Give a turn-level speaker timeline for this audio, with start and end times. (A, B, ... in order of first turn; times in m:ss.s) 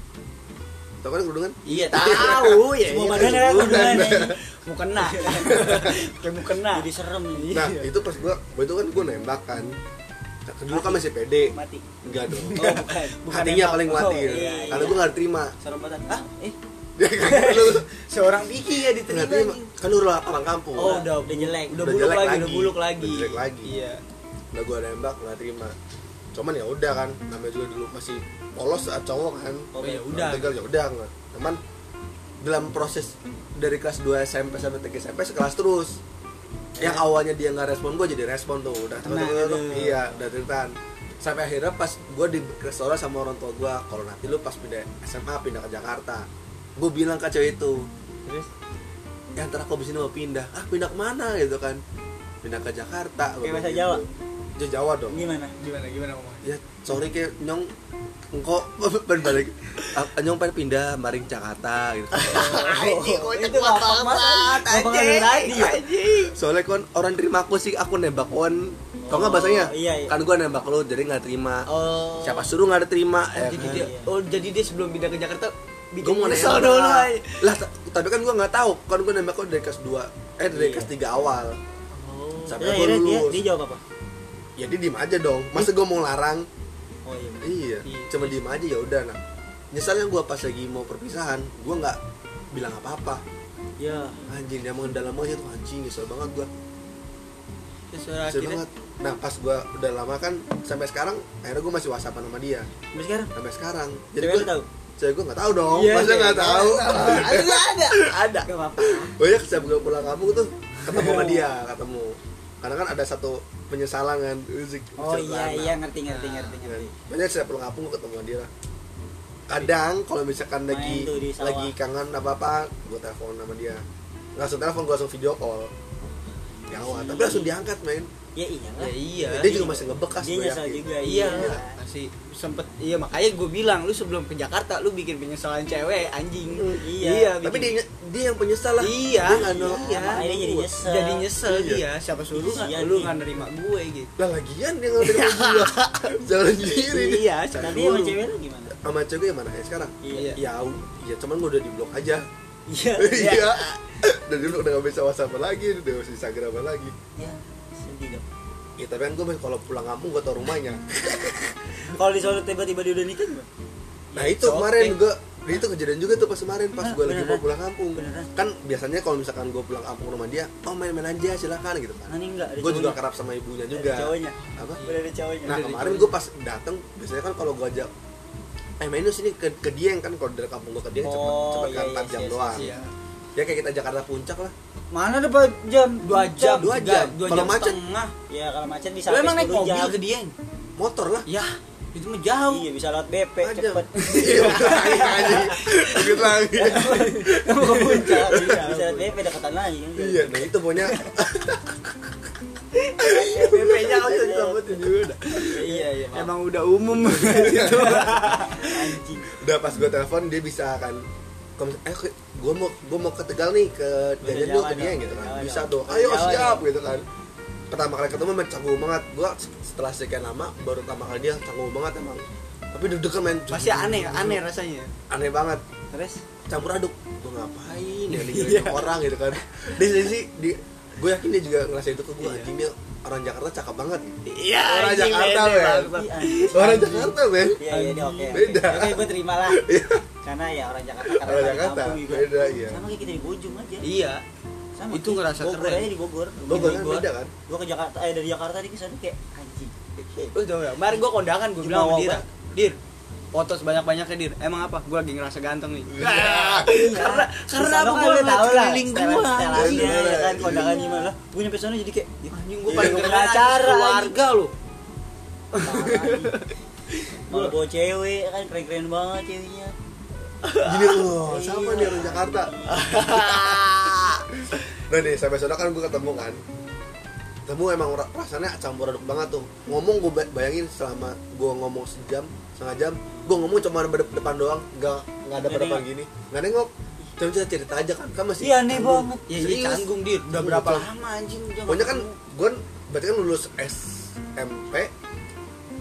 0:01.0-0:04.4 A
0:01.7-0:08.0 B
0:02.0-0:04.4 C
0:05.0-0:05.9 C
0:05.4-0:06.0 A
0:06.7-0:07.6 C
0:07.5-0:09.8 A
0:10.5-0:15.6 A
0:10.7-0:11.0 C
0:11.5-0:11.8 C
0:12.3-0:15.0 B
0:12.5-0:13.2 C
0:13.9-0:15.1 C
0:15.6-0:16.6 C
0:17.0-0:17.9 A
0:17.2-0:19.7 B
0:19.1-0:21.0 A
0:20.8-0:24.0 B
0:20.8-0:21.8 C
0:21.8-0:23.7 A
0:24.5-0:25.8 A
0:26.3-0:31.6 A
0:29.7-0:30.1 C
0:29.8-0:30.5 B
0:32.4-0:36.0 A
0:36.8-0:37.0 C
0:36.8-0:47.9 A
0:39.0-0:40.1 C
0:49.4-0:51.8 A
0:52.4-0:55.2 A
0:53.4-0:54.0 C
0:55.1-0:55.5 C
0:55.6-0:56.5 B
0:56.4-0:57.7 A
0:58.3-1:04.6 A
1:02.2-1:05.8 C
1:02.2-1:06.3 B
1:05.5-1:11.7 A
1:09.0-1:10.1 C
1:11.7-1:12.5 B
1:12.2-1:13.9 A
1:13.4-1:17.4 B
1:13.5-1:14.1 C
1:16.0-1:21.6 A
1:20.5-1:20.9 C
1:22.0-1:22.5 B
1:22.4-1:23.8 C
1:22.5-1:23.4 A
1:24.6-1:26.5 A
1:27.1-1:27.6 C
1:27.4-1:29.2 A
1:27.8-1:28.4 B
1:29.7-1:32.0 A
1:32.5-1:33.2 A
1:33.8-1:34.2 C
1:34.3-1:36.5 A
1:37.9-1:38.6 B
1:38.3-1:42.7 A
1:42.9-1:43.3 C
1:43.4-1:47.6 A
1:44.2-1:44.7 C
1:45.7-1:49.0 B
1:46.1-1:49.2 C
1:49.2-1:55.8 A
1:50.9-1:51.2 B
1:50.9-1:51.5 C
1:55.0-1:56.9 C
1:56.1-1:56.6 B
1:56.6-1:58.5 A
1:59.5-2:03.8 A
2:00.7-2:01.7 C
2:04.4-2:05.7 A
2:06.7-2:07.5 C
2:06.7-2:08.1 A
2:08.4-2:11.8 C
2:08.8-2:09.8 B
2:09.3-2:11.6 A
2:11.0-2:17.8 B
2:16.5-2:16.8 A
2:16.8-2:17.4 C
2:17.4-2:20.7 A
2:18.8-2:20.2 B
2:19.2-2:21.3 C
2:20.8-2:24.1 B
2:21.4-2:21.8 A
2:22.3-2:23.2 C
2:24.2-2:28.2 A
2:25.0-2:28.1 B
2:27.6-2:28.8 C
2:28.8-2:32.3 A
2:30.0-2:30.4 C
2:30.1-2:30.4 B
2:32.7-2:33.4 C
2:33.0-2:36.9 A
2:33.2-2:33.8 B
2:37.2-2:38.2 C
2:38.8-2:41.5 A
2:41.9-2:43.5 C
2:44.1-2:45.0 B
2:44.2-2:54.8 A
2:46.8-2:48.3 C
2:52.1-2:53.0 C
2:53.7-2:56.0 C
2:54.5-2:55.0 B
2:55.4-2:57.9 A
2:55.5-2:56.1 B
2:58.8-3:02.7 A
3:01.0-3:02.8 C
3:02.5-3:02.9 B
3:03.4-3:04.5 A
3:04.9-3:06.6 C
3:06.0-3:08.1 B
3:06.4-3:07.8 A
3:08.3-3:10.0 C
3:09.1-3:10.3 B
3:10.8-3:11.3 A
3:11.3-3:12.7 B
3:12.5-3:15.3 C
3:13.4-3:17.3 A
3:14.0-3:19.1 B
3:16.5-3:21.1 C
3:18.3-3:18.6 A
3:20.0-3:21.9 A
3:22.8-3:29.0 B
3:23.0-3:26.3 C
3:27.1-3:28.2 A
3:27.5-3:29.3 C
3:29.3-3:31.0 A
3:31.6-3:37.0 A
3:34.2-3:36.6 C
3:37.7-3:44.4 A
3:43.5-3:44.9 B
3:45.1-3:45.6 A
3:45.9-3:46.2 C
3:46.5-3:57.6 A
3:48.1-3:49.0 B
3:52.2-3:52.5 B
3:54.3-3:56.9 B
3:55.9-3:59.7 C
3:57.7-3:58.7 B
3:58.3-4:00.0 A
4:00.2-4:03.9 C
4:01.1-4:02.8 A
4:03.8-4:04.2 B
4:04.8-4:06.8 C
4:04.9-4:05.9 B
4:06.4-4:07.3 A
4:06.5-4:07.1 B
4:07.5-4:10.4 C
4:10.3-4:12.8 B
4:11.6-4:12.2 C
4:13.3-4:20.0 B
4:15.9-4:16.7 A
4:16.6-4:24.2 C
4:19.5-4:20.8 A
4:22.3-4:24.5 B
4:25.5-4:27.5 B
4:25.6-4:26.4 C
4:27.3-4:29.7 C
4:30.4-4:31.1 B
4:30.6-4:33.6 A
4:31.2-4:33.0 C
4:32.7-4:34.3 B
4:34.9-4:36.4 A
4:37.5-4:50.9 A
4:45.4-4:45.9 C
4:48.4-4:49.3 C
4:49.3-4:52.1 B
4:51.7-4:54.9 A